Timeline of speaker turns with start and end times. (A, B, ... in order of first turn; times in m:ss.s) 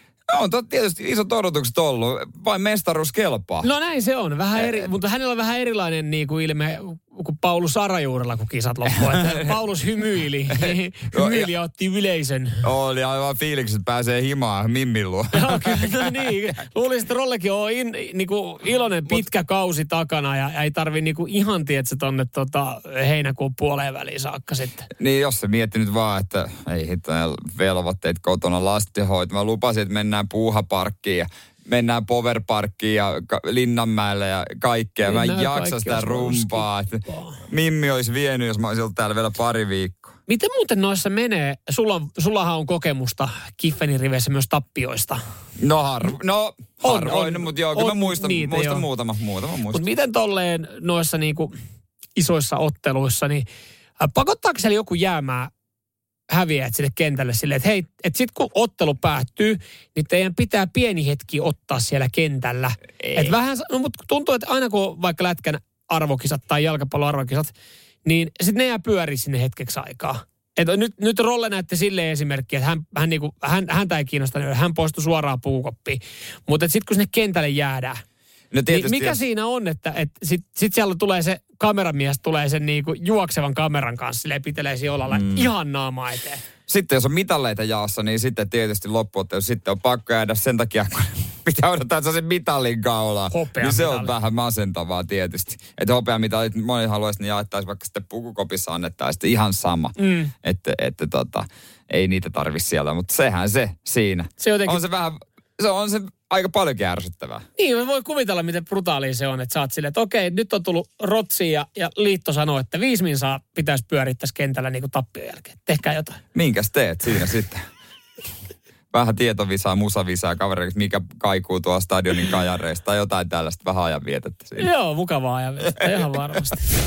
0:00.3-0:03.7 A
0:03.6-0:12.7 B
0:04.6-0:04.9 A
0:08.9-0:09.6 A
0:10.5-0:11.5 A
0:12.6-0:16.3 A
0:15.3-0:24.9 B
0:25.0-0:40.1 A
0:35.0-0:37.4 B
0:40.3-0:45.2 B
0:45.6-0:49.8 A
0:46.8-0:48.8 B
0:49.7-0:51.5 B
0:52.2-0:53.5 B
0:54.0-0:55.5 B
0:56.3-1:07.5 B
1:03.0-1:03.3 A
1:08.0-1:18.0 B
1:18.5-1:19.2 A
1:18.7-1:26.4 B
1:25.1-1:25.5 A
1:26.7-1:47.4 A
1:33.3-1:34.1 B
1:40.0-1:40.3 B
1:44.4-1:44.8 B
1:47.6-1:56.2 B
1:56.3-1:57.6 A
1:58.9-2:04.7 A
2:04.6-2:06.6 B
2:05.7-2:06.1 A